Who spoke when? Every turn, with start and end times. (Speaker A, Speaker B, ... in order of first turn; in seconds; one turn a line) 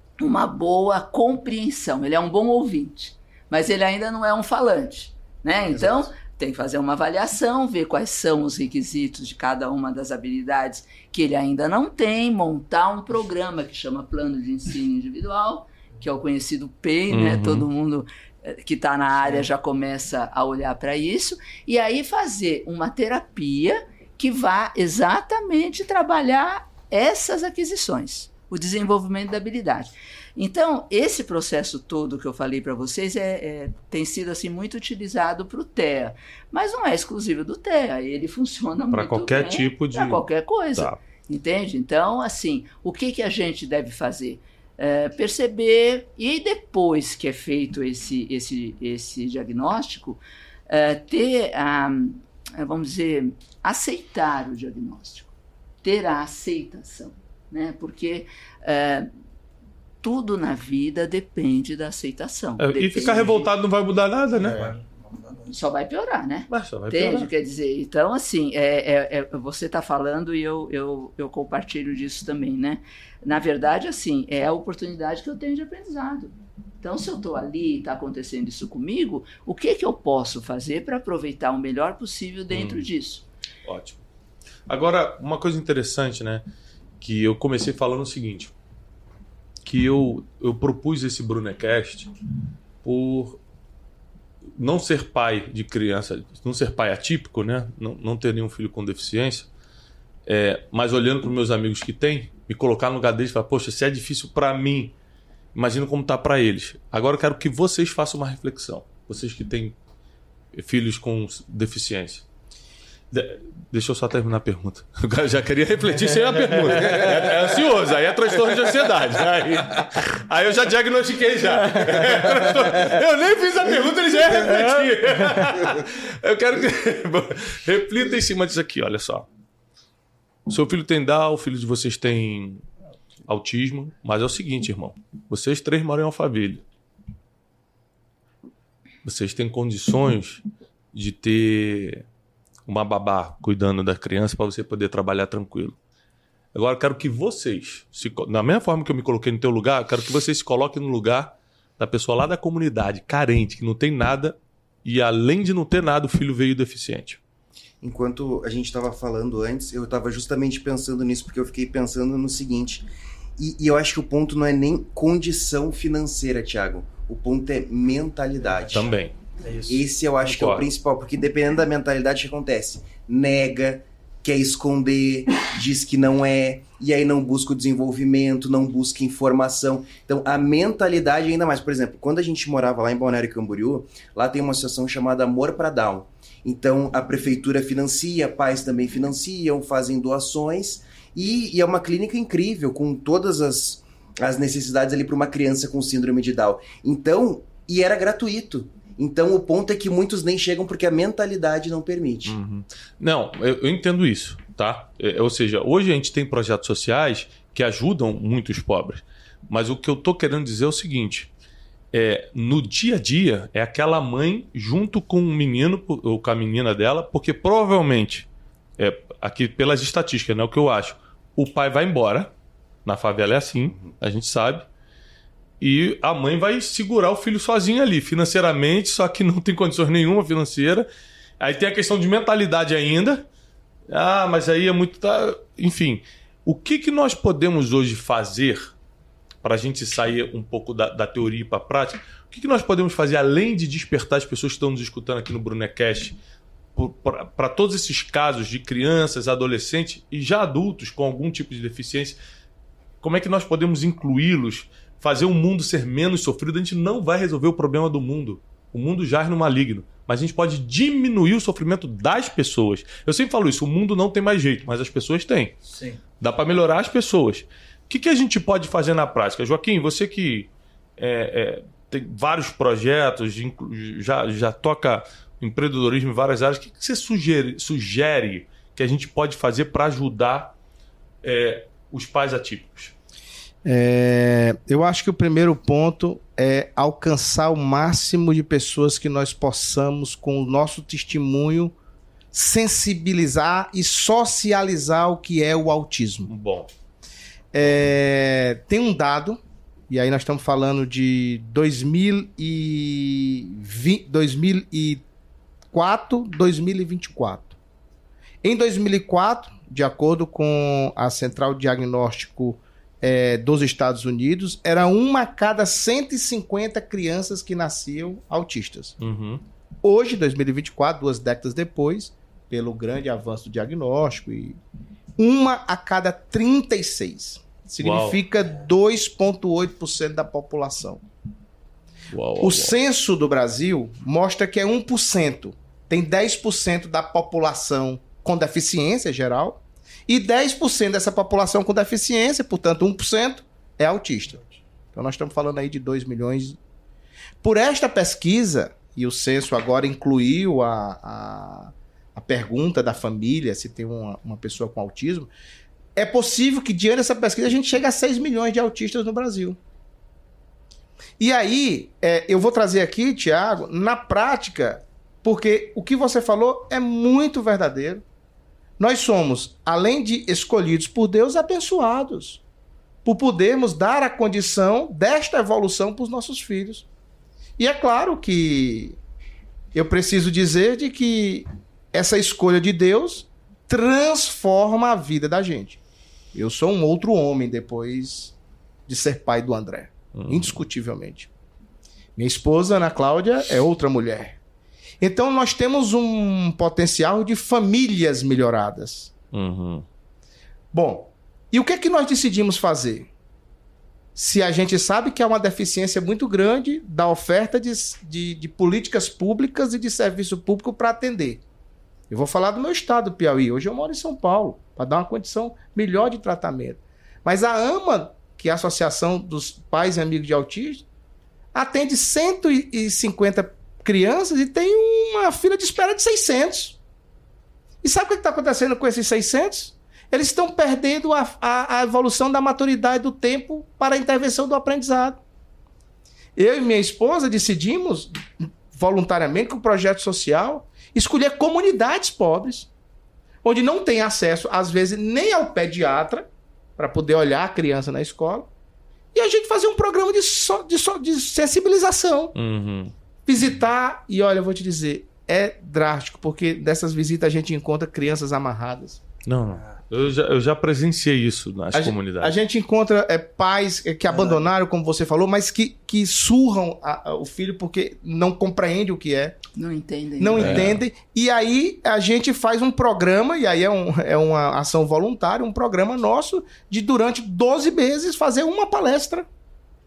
Speaker A: 0.2-55.3
Speaker B: 17.1-17.7
Speaker B: 38.9-40.2
Speaker A: 55.8-59.1
Speaker A: 60.0-63.5
Speaker B: 62.6-64.7
Speaker C: 64.4-65.5
Speaker A: 65.5-83.2
Speaker B: 66.5-67.3
Speaker B: 82.5-82.8
Speaker B: 83.7-84.0
Speaker B: 84.7-86.5
Speaker B: 87.0-88.5
Speaker B: 89.7-92.1
Speaker B: 92.8-93.4
Speaker B: 94.6-99.5
Speaker B: 100.3-104.9
Speaker B: 105.5-109.8
Speaker B: 110.5-112.2
Speaker B: 113.1-129.3
Speaker B: 130.5-132.6
Speaker B: 133.3-136.6
Speaker B: 139.0-142.0
Speaker B: 142.7-145.8
Speaker B: 146.5-157.2
Speaker D: 157.8-162.9
Speaker D: 163.4-168.9
Speaker B: 168.7-169.2
Speaker C: 169.4-169.8
Speaker D: 169.7-202.4
Speaker B: 170.2-170.7
Speaker B: 202.3-211.3
Speaker B: 211.9-222.3
Speaker B: 222.8-224.7
Speaker B: 225.6-230.9
Speaker B: 231.4-233.3
Speaker B: 233.9-238.7
Speaker B: 239.4-246.2
Speaker B: 246.8-252.2
Speaker B: 253.0-265.6
Speaker C: 265.7-266.0
Speaker B: 266.2-280.5
Speaker B: 281.2-282.9
Speaker E: 283.6-291.7
Speaker E: 292.3-296.3
Speaker B: 296.3-296.7
Speaker E: 297.5-305.0
Speaker E: 305.7-307.6
Speaker E: 308.4-319.0
Speaker B: 319.0-319.4
Speaker E: 319.8-324.6
Speaker E: 325.2-331.0
Speaker B: 327.8-328.2
Speaker B: 332.1-332.8
Speaker E: 332.4-344.4
Speaker E: 344.9-346.6
Speaker E: 347.4-355.3
Speaker E: 355.9-359.6
Speaker E: 361.2-368.0
Speaker E: 368.8-372.4
Speaker E: 373.1-376.9
Speaker E: 377.6-379.0
Speaker E: 379.7-385.8
Speaker E: 386.3-388.4
Speaker E: 388.9-391.3
Speaker B: 390.1-390.6
Speaker E: 392.2-394.4
Speaker E: 395.0-399.1
Speaker B: 399.3-399.9
Speaker E: 400.7-403.1
Speaker E: 404.2-411.4
Speaker E: 412.1-420.9
Speaker E: 421.5-426.8
Speaker E: 427.8-435.2
Speaker E: 436.4-438.2
Speaker E: 438.7-442.7
Speaker E: 443.4-448.5
Speaker E: 449.1-452.4
Speaker B: 452.4-452.9
Speaker E: 453.3-459.0
Speaker B: 459.2-462.4
Speaker E: 461.7-469.4
Speaker A: 469.6-470.6
Speaker E: 470.2-479.3
Speaker B: 470.4-470.8